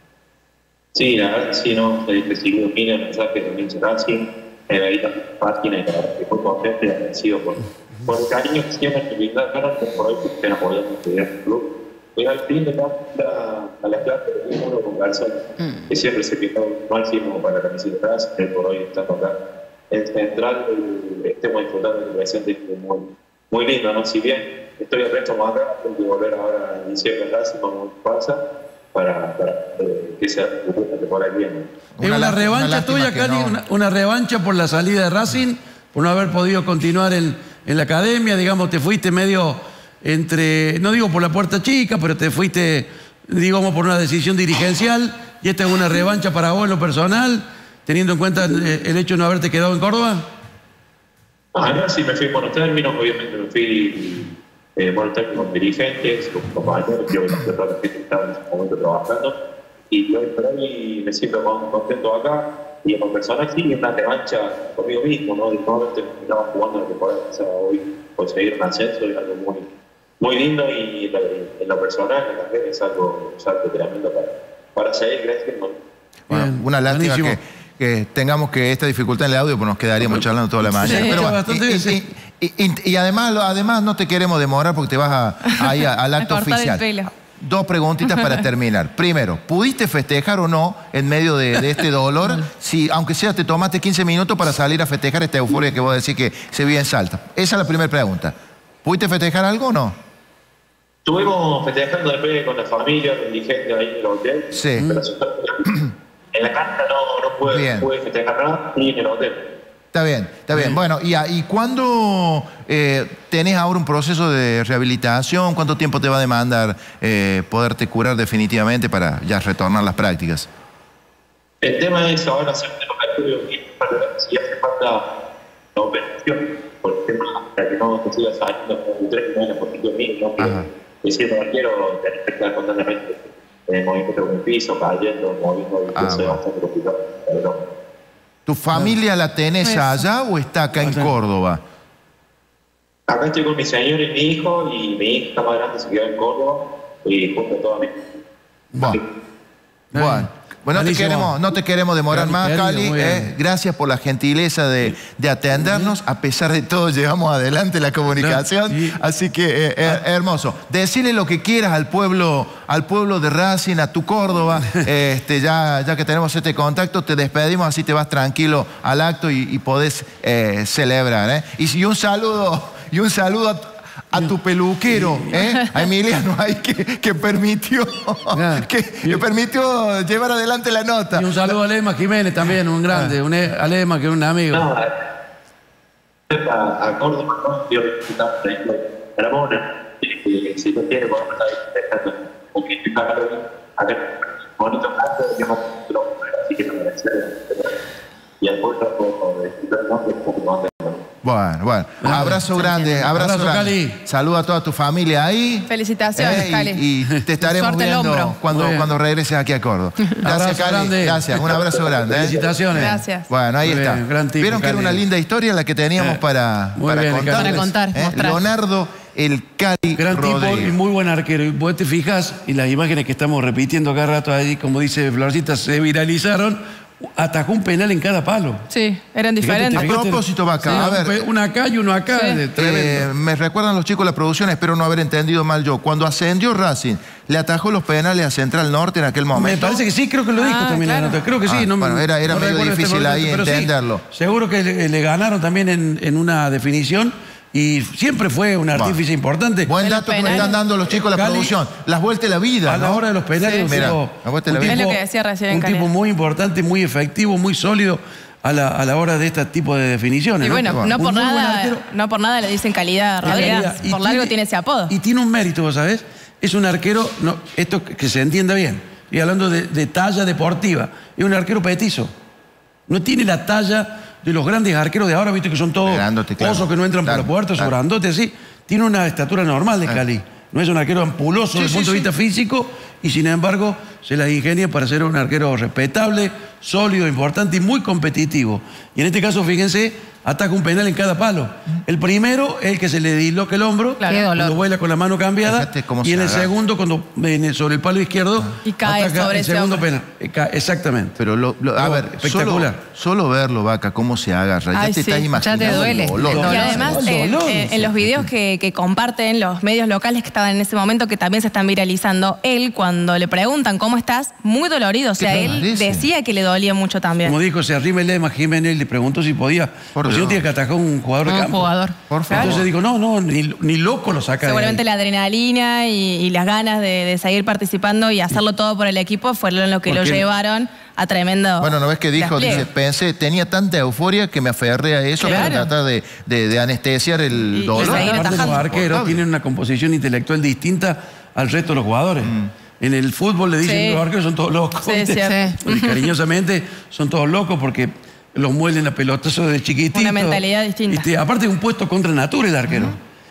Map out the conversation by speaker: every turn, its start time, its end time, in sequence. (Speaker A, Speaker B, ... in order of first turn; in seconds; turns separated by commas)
Speaker A: 0.9-19.4, Speaker A: 19.9-28.4, Speaker A: 28.9-31.7, Speaker B: 32.0-33.6, Speaker C: 32.0-50.2, Speaker A: 51.5-59.3, Speaker A: 59.9-69.7, Speaker A: 70.2-75.8, Speaker C: 76.3-77.4, Speaker B: 76.3-100.0, Speaker C: 80.0-82.0, Speaker D: 80.8-81.2, Speaker D: 85.5-87.1, Speaker D: 88.1-88.4, Speaker A: 101.0-105.8, Speaker B: 104.5-105.0, Speaker A: 106.3-109.5, Speaker B: 107.5-107.9, Speaker B: 109.9-120.5, Speaker C: 110.5-110.8, Speaker A: 121.6-125.0, Speaker A: 125.8-137.6, Speaker B: 130.4-130.7, Speaker B: 135.9-136.4, Speaker B: 138.5-141.6, Speaker D: 139.7-140.0, Speaker C: 140.7-141.1, Speaker A: 143.1-147.9, Speaker B: 148.8-149.0, Speaker C: 149.9-151.4, Speaker B: 149.9-181.6, Speaker C: 152.1-153.3, Speaker C: 155.6-155.9, Speaker C: 158.2-159.0, Speaker C: 174.9-175.4, Speaker C: 178.3-179.2, Speaker C: 181.2-184.7, Speaker B: 182.9-183.2, Speaker A: 184.5-185.1, Speaker A: 186.3-197.8, Speaker A: 198.4-201.1, Speaker B: 201.2-220.8, Speaker C: 202.0-202.4, Speaker E: 202.5-203.1, Speaker C: 203.1-204.0, Speaker D: 205.7-206.8, Speaker E: 207.4-208.3, Speaker C: 208.5-208.9, Speaker C: 210.2-211.3, Speaker A: 211.4-212.7, Speaker C: 212.1-213.0, Speaker D: 212.7-213.3, Speaker C: 213.6-215.0, Speaker C: 216.0-216.2, Speaker C: 216.8-217.7, Speaker E: 217.2-218.4, Speaker C: 220.0-228.7, Speaker D: 228.7-229.9, Speaker C: 229.4-233.1, Speaker B: 229.8-231.2, Speaker D: 232.1-232.4, Speaker B: 232.6-239.8, Speaker C: 239.3-249.7, Speaker D: 240.4-241.2, Speaker B: 241.4-244.0, Speaker B: 248.7-249.0, Speaker B: 249.7-253.0, Speaker D: 249.8-250.6, Speaker C: 250.3-251.6, Speaker C: 252.7-261.8, Speaker D: 253.4-253.8, Speaker B: 253.7-254.8, Speaker D: 254.6-255.9, Speaker D: 260.4-264.9, Speaker B: 260.7-261.0, Speaker C: 263.2-264.4, Speaker C: 264.9-272.1, Speaker C: 272.9-301.2, Speaker B: 275.8-277.8, Speaker B: 281.5-282.1, Speaker D: 294.0-294.3, Speaker E: 294.0-294.6, Speaker B: 295.4-296.5, Speaker D: 298.6-299.9, Speaker B: 301.2-307.2, Speaker C: 301.8-302.8, Speaker D: 304.7-305.7, Speaker E: 305.3-306.5, Speaker C: 305.7-308.3, Speaker D: 306.3-317.4, Speaker B: 315.2-316.1, Speaker C: 317.2-321.7, Speaker B: 319.9-320.4, Speaker E: 321.3-322.5, Speaker B: 322.1-322.7, Speaker C: 322.3-324.8, Speaker D: 324.4-332.7, Speaker C: 329.9-330.2, Speaker B: 331.6-339.2, Speaker D: 335.2-335.7, Speaker E: 337.5-337.9, Speaker D: 337.7-338.6, Speaker C: 337.8-353.0, Speaker B: 342.2-342.5, Speaker D: 343.6-344.0, Speaker D: 344.9-346.1, Speaker E: 345.3-345.6, Speaker D: 349.9-351.1